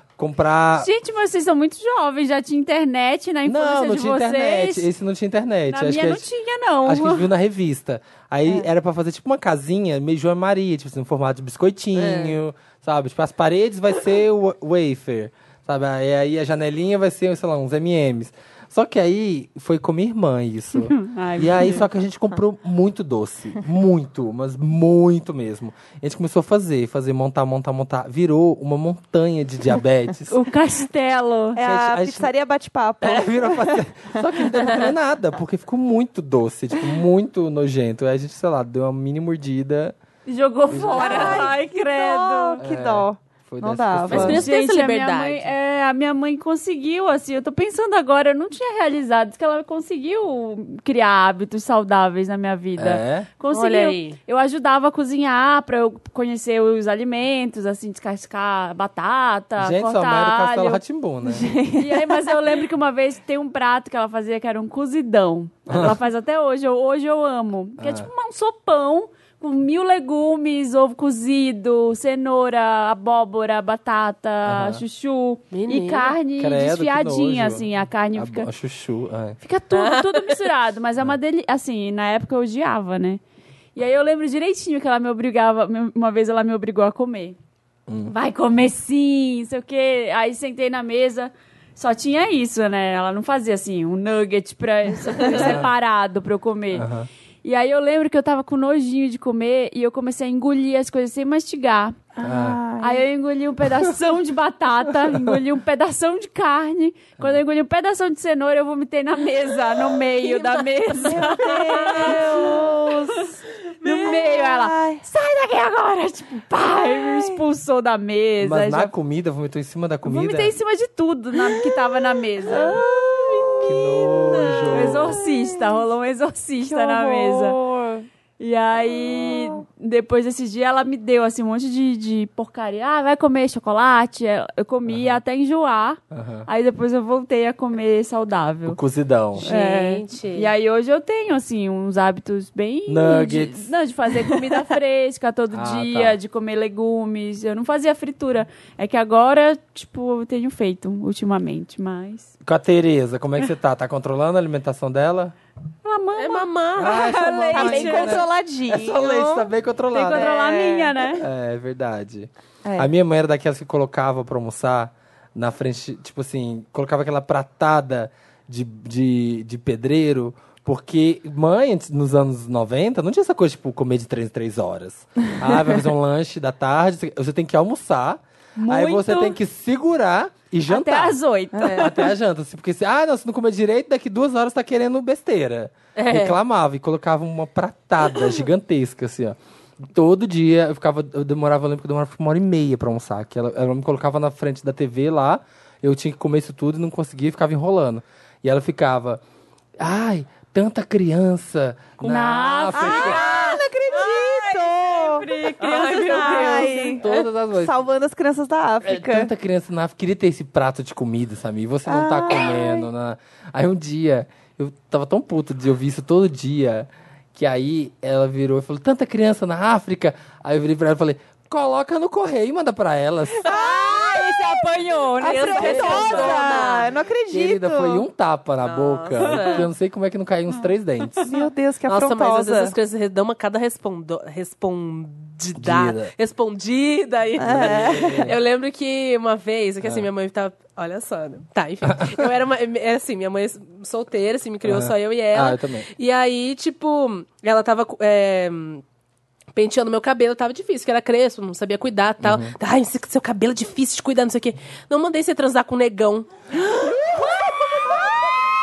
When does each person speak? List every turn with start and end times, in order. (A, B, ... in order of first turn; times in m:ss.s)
0:00.2-0:00.9 A
0:00.8-0:04.9 B
0:03.5-0:06.3 A
0:05.7-0:07.3 B
0:06.8-0:30.4 A
0:12.0-0:12.4 C
0:20.7-0:21.8 B
0:30.3-0:31.6 B
0:31.6-0:34.7 D
0:31.6-0:32.3 A
0:33.0-0:40.0 A
0:40.3-0:42.6 B
0:40.7-0:41.5 A
0:40.8-0:44.4 D
0:42.6-0:44.4 A
0:44.1-0:45.5 C
0:44.2-1:00.8 B
0:52.8-0:53.3 A
0:53.5-0:54.2 C
0:59.6-1:01.5 A
1:01.2-1:02.4 D
1:01.8-1:18.5 B
1:05.7-1:06.0 A
1:07.8-1:08.1 A
1:14.5-1:14.8 A
1:15.5-1:16.2 C
1:16.4-1:19.4 A
1:19.4-1:23.2 B
1:19.7-1:20.4 C
1:23.8-1:27.4 B
1:27.9-1:28.1 A
1:28.1-1:36.9 B
1:35.2-1:35.5 D
1:35.2-1:35.7 A
1:36.7-1:37.1 A
1:37.4-1:42.0 B
1:42.2-1:43.0 D
1:42.2-1:42.6 A
1:42.8-1:52.6 B
1:51.0-1:55.0 D
1:52.0-1:52.5 C
1:53.8-1:58.9 B
1:56.8-1:57.4 D
1:58.4-2:00.6 A
2:00.0-2:02.8 B
2:01.4-2:01.8 D
2:02.4-2:05.8 D
2:02.9-2:04.7 C
2:03.6-2:05.2 A
2:04.7-2:07.6 B
2:06.7-2:08.1 D
2:08.4-2:18.8 B
2:08.8-2:09.6 D
2:14.9-2:15.2 A
2:16.1-2:16.5 A
2:18.7-2:19.5 A
2:19.4-2:20.5 C
2:19.4-2:32.3 B
2:22.9-2:23.7 A
2:25.5-2:26.2 A
2:32.4-2:35.4 A
2:35.8-2:38.2 B
2:36.2-2:37.0 C
2:36.8-2:40.3 A
2:37.5-2:39.5 D
2:39.9-2:41.2 B
2:40.1-2:41.0 D
2:41.1-3:01.2 A
2:42.6-2:42.9 D
2:58.6-2:59.4 B
3:00.7-3:02.1 B
3:01.6-3:01.9 C
3:01.8-3:19.2 A
3:06.0-3:06.4 C
3:19.8-3:23.2 A
3:22.0-3:27.0 B
3:22.7-3:29.3 D
3:25.6-3:27.3 C
3:27.0-3:27.9 A
3:28.8-3:43.5 A
3:31.9-3:32.9 D
3:43.4-3:44.6 D
3:43.4-3:46.7 B
3:45.2-3:48.0 D
3:45.2-3:47.0 C
3:45.6-3:46.4 A
3:47.3-3:51.2 A
3:48.6-3:49.7 C
3:49.2-3:49.6 B
3:51.3-3:52.8 D
3:51.9-4:08.8 C
3:55.6-3:56.1 A
3:57.4-3:58.3 D
3:57.4-3:58.4 A
4:01.8-4:02.3 A
4:04.6-4:05.9 A
4:09.6-4:16.3 C
4:12.2-4:12.6 A
4:16.7-4:18.1 D